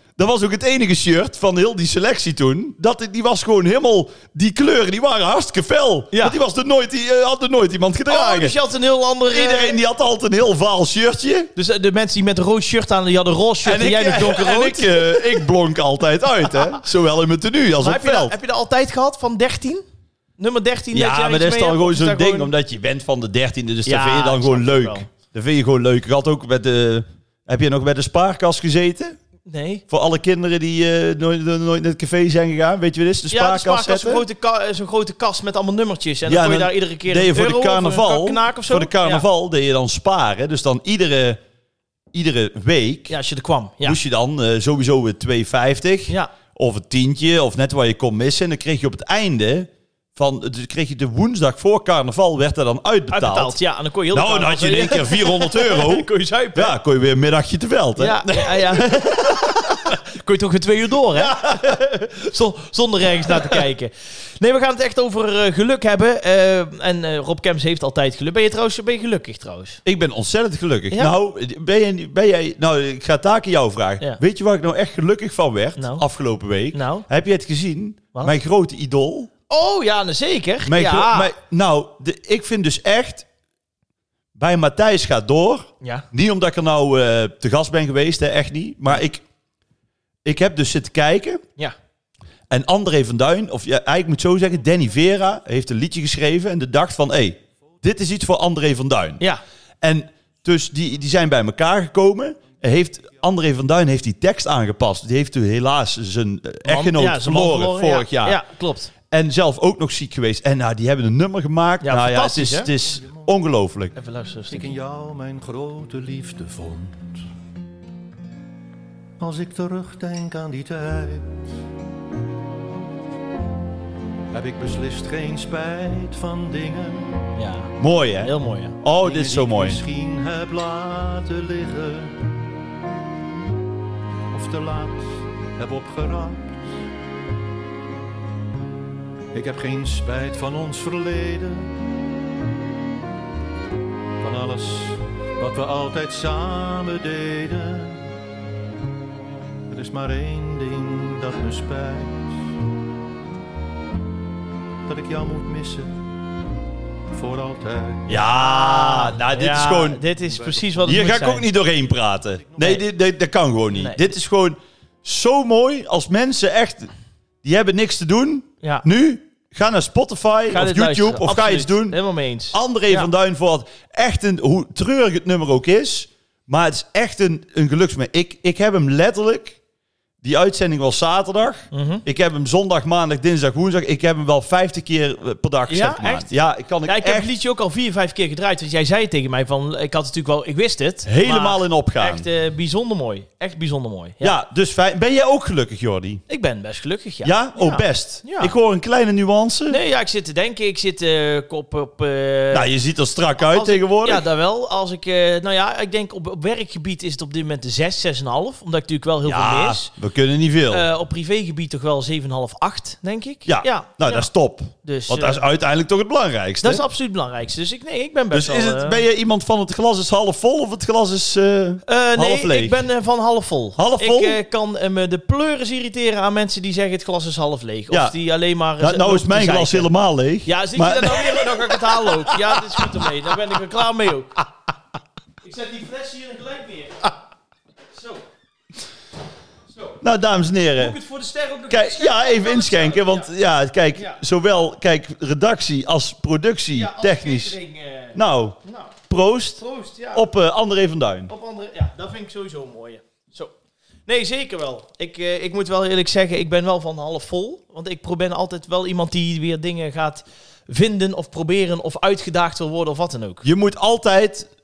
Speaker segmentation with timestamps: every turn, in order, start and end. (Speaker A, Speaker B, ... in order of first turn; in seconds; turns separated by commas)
Speaker A: 0.2-8.5, Speaker B: 6.1-6.4, Speaker B: 8.1-9.8, Speaker A: 9.3-11.5, Speaker B: 11.6-15.4, Speaker A: 13.6-18.3, Speaker B: 17.8-19.8, Speaker B: 20.4-22.5, Speaker A: 20.9-29.2, Speaker B: 23.8-25.1, Speaker B: 29.4-29.8, Speaker A: 29.9-34.2, Speaker B: 33.3-39.2, Speaker A: 36.3-41.4, Speaker A: 42.1-43.1, Speaker B: 43.1-44.0, Speaker A: 43.8-53.6, Speaker B: 53.1-56.8, Speaker A: 54.1-59.8, Speaker B: 58.0-69.8, Speaker A: 61.1-61.8, Speaker A: 63.2-63.5, Speaker A: 69.8-79.3, Speaker B: 75.8-76.0, Speaker B: 76.7-77.1, Speaker B: 79.5-81.3, Speaker A: 80.6-83.2, Speaker A: 84.3-89.2, Speaker A: 90.2-91.4, Speaker A: 92.5-99.2, Speaker A: 99.8-108.4, Speaker B: 106.6-108.9, Speaker A: 109.1-113.9, Speaker B: 111.8-112.7, Speaker C: 112.8-113.3, Speaker B: 114.0-114.7, Speaker C: 114.5-117.2, Speaker C: 119.2-121.4, Speaker C: 124.3-127.2, Speaker B: 127.3-128.8, Speaker A: 127.8-129.8, Speaker C: 129.0-132.2, Speaker C: 134.3-136.6, Speaker C: 139.3-141.7, Speaker C: 144.2-148.0, Speaker C: 149.7-152.5, Speaker C: 154.9-156.0, Speaker C: 157.1-158.2, Speaker A: 158.1-160.0, Speaker B: 158.3-161.4, Speaker C: 160.2-161.0, Speaker A: 160.8-166.9, Speaker B: 163.7-164.0, Speaker A: 167.4-172.0, Speaker B: 170.5-173.1, Speaker A: 172.5-179.6, Speaker A: 180.2-187.3, Speaker B: 181.7-182.0, Speaker B: 185.7-186.3, Speaker B: 186.8-194.3, Speaker A: 191.0-192.3, Speaker A: 194.2-196.2, Speaker B: 196.3-198.5, Speaker A: 197.2-199.8, Speaker B: 199.7-202.7, Speaker A: 202.5-204.2, Speaker B: 203.4-209.9, Speaker A: 209.2-210.8, Speaker B: 210.7-214.3, Speaker A: 213.4-216.8, Speaker B: 214.8-215.4, Speaker B: 216.6-219.0, Speaker A: 218.3-222.8, Speaker B: 221.9-229.9, Speaker A: 223.8-224.4, Speaker A: 227.9-228.2, Speaker A: 228.8-233.1, Speaker B: 230.4-234.4, Speaker B: 235.4-237.1, Speaker B: 237.9-238.2, Speaker A: 240.0-240.9, Speaker B: 240.8-243.3, Speaker A: 241.7-247.6, Speaker B: 246.7-248.9, Speaker A: 248.1-249.6, Speaker B: 249.6-250.3, Speaker A: 250.1-251.3, Speaker B: 251.3-253.5, Speaker B: 254.1-263.4, Speaker A: 263.4-264.5